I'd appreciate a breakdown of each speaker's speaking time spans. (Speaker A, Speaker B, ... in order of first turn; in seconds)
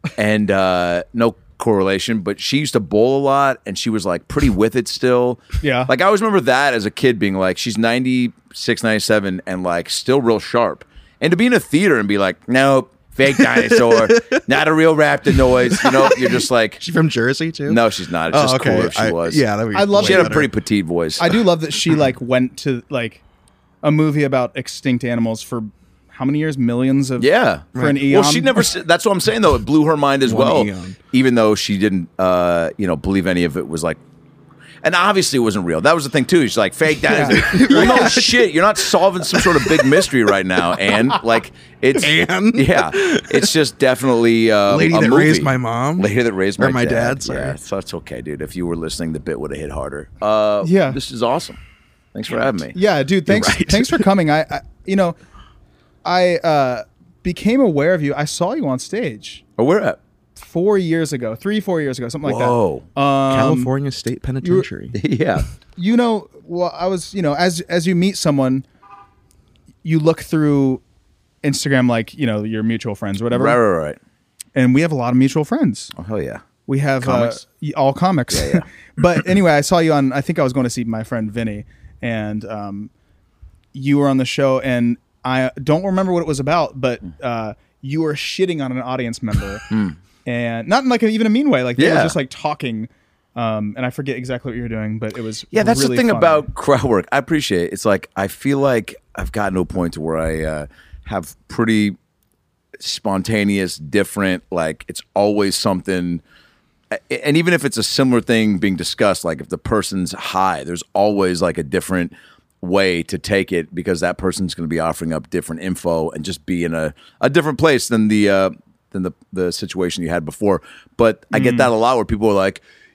Speaker A: 0.1-16.8, 17.7-19.4, 20.0-21.3, 27.2-34.0, 34.8-51.6, 52.1-52.8, 59.6-60.0, 62.2-62.9, 65.0-65.5, 73.3-74.0, 76.0-76.4, 77.0-77.4, 78.3-78.7, 89.7-90.0, 91.8-92.2, 95.5-102.0, 102.8-106.2, 106.9-122.6
Speaker B: 5.6-5.9, 19.7-20.5, 21.2-23.2, 23.8-28.6, 37.1-38.2, 50.6-51.0, 52.7-55.2, 56.0-59.4, 60.4-63.7, 64.4-64.7, 65.8-68.7, 69.8-70.8, 71.4-73.6, 74.6-75.9, 76.7-82.9, 83.7-89.6, 90.3-96.5, 121.3-121.7
Speaker C: 13.3-14.4, 15.3-20.5, 27.8-28.0, 30.2-31.0, 37.1-38.5, 39.2-40.1, 40.8-41.2, 42.0-43.5, 44.7-47.6, 53.3-54.1, 63.3-65.0